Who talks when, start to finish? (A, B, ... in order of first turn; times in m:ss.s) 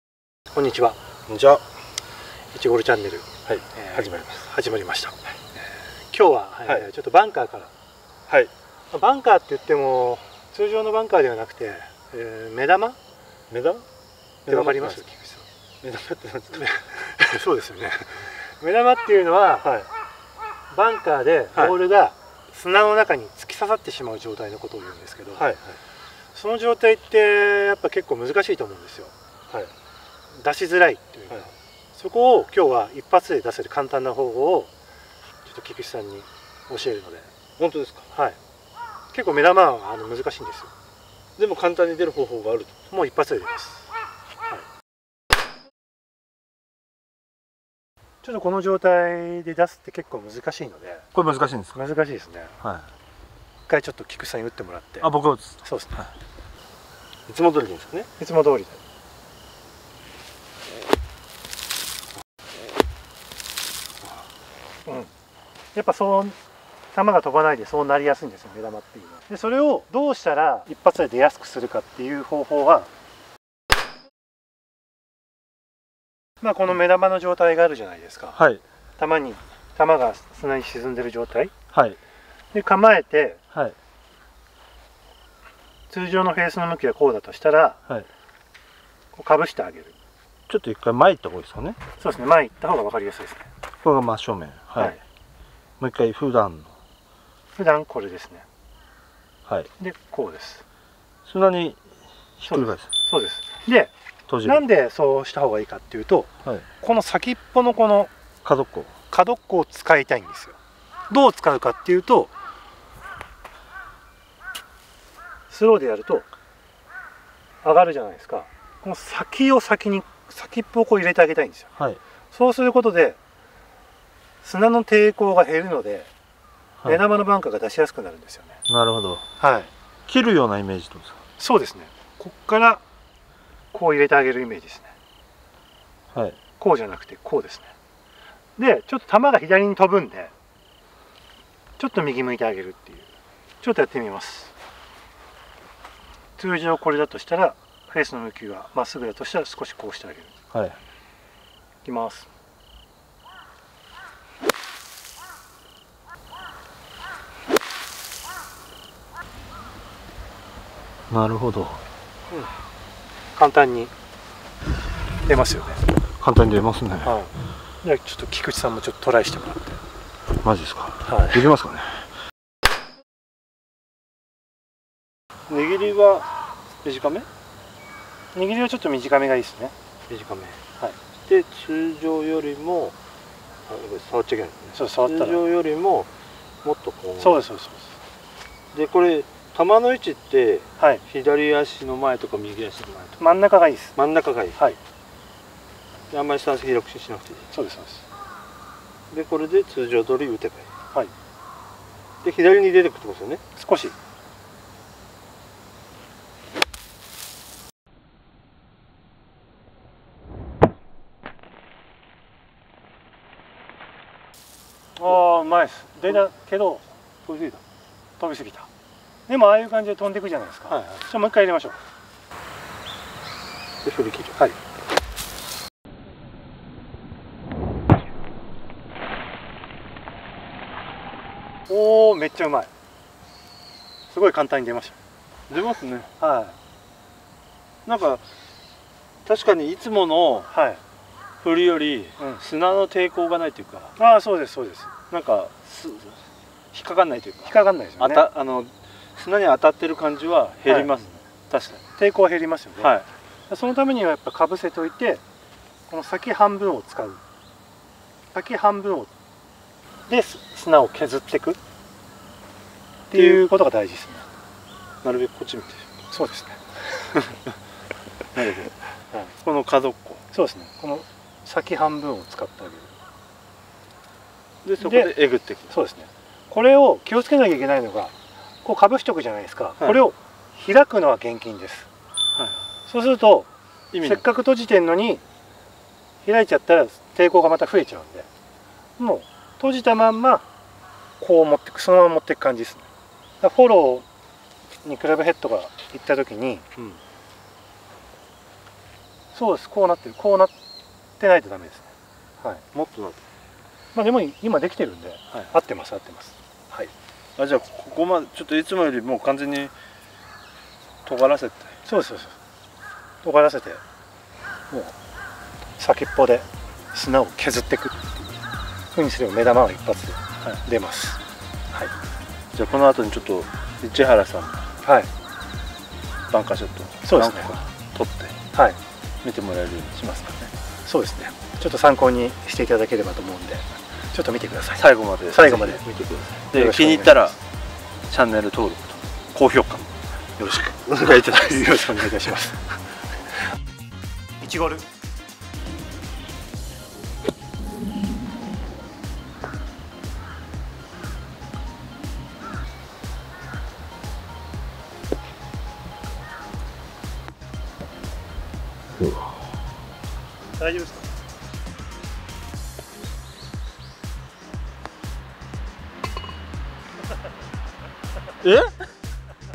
0:00.5-0:01.0 A
0:01.3-0:01.6 B
0:02.5-0:07.7 A
0:03.4-0:04.4 B
0:08.9-0:13.0 A
0:13.5-0:13.8 B
0:14.5-0:15.0 B
0:14.5-0:15.4 A
0:15.8-0:17.4 B
0:16.6-0:19.7 A
0:20.7-0:25.4 A
0:25.3-0:25.8 B
0:26.3-0:29.7 A
0:30.3-0:34.7 A
0:35.4-0:37.3 A
0:37.6-0:38.0 B
0:38.1-0:38.4 A
0:39.1-0:40.7 A
0:41.4-0:42.7 B
0:42.9-0:43.9 A
0:48.2-0:51.0 A
0:51.1-0:51.8 B
0:51.7-0:52.5 A
0:52.6-0:52.9 B
0:53.7-0:55.1 A
0:55.0-0:55.6 B
0:55.6-0:56.1 A
0:57.3-0:58.1 B
0:58.2-0:58.8 A
1:05.8-1:06.4 A
1:06.9-1:12.9 A
1:16.4-1:18.4 A
1:18.4-1:18.6 B
1:19.0-1:21.5 A
1:21.7-1:22.0 B
1:22.5-1:23.4 A
1:25.9-1:27.8 A
1:29.1-1:29.9 A
1:30.5-1:31.8 B
1:32.0-1:33.5 A
1:33.8-1:35.0 B
1:35.8-1:36.7 B
1:37.6-1:38.4 A
1:39.8-1:40.6 A
1:41.3-1:41.8 B
1:42.4-1:42.9 B
1:42.5-1:43.9 A
1:44.3-1:44.6 B
1:44.4-1:46.3 A
1:46.8-1:48.1 A
1:48.4-1:48.9 B
1:49.1-1:50.6 A
1:51.1-1:52.3 A
1:55.5-1:56.3 A
1:57.6-2:01.7 A
2:02.3-2:03.2 A
2:04.4-2:06.1 A
2:06.8-2:08.6 A
2:08.7-2:09.2 B
2:09.4-2:09.7 A
2:10.1-2:11.2 B
2:11.4-2:12.8 A
2:13.7-2:14.9 A
2:16.6-2:17.7 A
2:18.6-2:20.3 A
2:21.8-2:23.1 A
2:23.6-2:24.5 A
2:26.4-2:30.3 A
2:30.5-2:30.8 B
2:31.8-2:32.3 A
2:41.1-2:41.8 B
2:43.4-2:43.9 A
2:45.2-2:45.8 A
2:46.2-2:47.2 B
2:47.0-2:47.3 A
2:47.8-2:49.8 A
2:50.4-2:52.0 B
2:51.0-2:51.5 A
2:55.5-2:56.3 B
2:56.8-2:57.3 B
2:58.3-2:59.7 A
3:00.1-3:00.6 B
3:01.3-3:03.0 B
3:03.7-3:06.1 B
3:04.7-3:05.4 A
3:06.6-3:07.4 B
3:07.2-3:07.9 A
3:08.7-3:13.2 B
3:10.8-3:11.0 A
3:13.2-3:13.9 A
3:14.0-3:14.6 B
3:16.1-3:17.5 B
3:17.5-3:18.0 A
3:19.1-3:20.7 B
3:22.2-3:23.4 B
3:23.6-3:23.9 A
3:35.0-3:36.9 A
3:37.2-3:37.6 B
3:38.2-3:38.7 A
3:39.3-3:41.8 A
3:40.7-3:41.0 B
3:43.8-3:44.4 B
3:51.7-3:52.7 A
3:54.1-3:55.0 A
3:55.5-3:56.1 B
3:56.2-3:56.6 A
3:57.8-3:58.2 B
3:59.2-4:00.5 B
4:00.5-4:00.8 A
4:01.4-4:03.9 B
4:02.2-4:02.4 A
4:04.0-4:04.9 A
4:05.1-4:06.2 B
4:06.7-4:11.8 B
4:07.4-4:08.2 A
4:10.7-4:11.0 A
4:12.0-4:12.9 A
4:12.8-4:13.1 B
4:13.5-4:15.2 A
4:15.9-4:17.2 A
4:18.3-4:19.1 A
4:20.1-4:21.6 A
4:23.1-4:24.2 A
4:23.1-4:23.4 B
4:25.0-4:25.8 B
4:26.1-4:26.6 A
4:28.4-4:28.7 B
4:29.4-4:30.2 B
4:30.3-4:32.9 A
4:34.6-4:35.8 B
4:34.8-4:35.1 A
4:35.7-4:41.9 A
4:42.9-4:43.5 A
4:43.9-4:44.2 B
4:44.0-4:45.2 A
4:46.2-4:48.3 A
4:49.0-4:50.4 A
4:51.2-4:52.9 A
4:53.4-4:54.1 A
4:54.8-4:56.7 A
4:59.3-5:00.5 A
5:01.2-5:01.9 A
5:02.7-5:03.2 B
5:03.9-5:06.9 A
5:07.4-5:09.7 B
5:11.0-5:11.7 B
5:11.8-5:12.4 A
5:13.2-5:13.8 A
5:15.8-5:18.4 A
5:18.9-5:21.2 A
5:22.5-5:24.7 B
5:24.8-5:25.1 A
5:26.3-5:28.4 B
5:27.0-5:27.5 A
5:28.5-5:28.8 A
5:29.2-5:30.5 B
5:30.9-5:35.8 A
5:34.8-5:37.4 B
5:36.5-5:37.3 A
5:38.1-5:42.2 B
5:41.0-5:42.6 A
5:44.4-5:44.8 A
6:00.6-6:01.1 A
6:08.4-6:08.7 B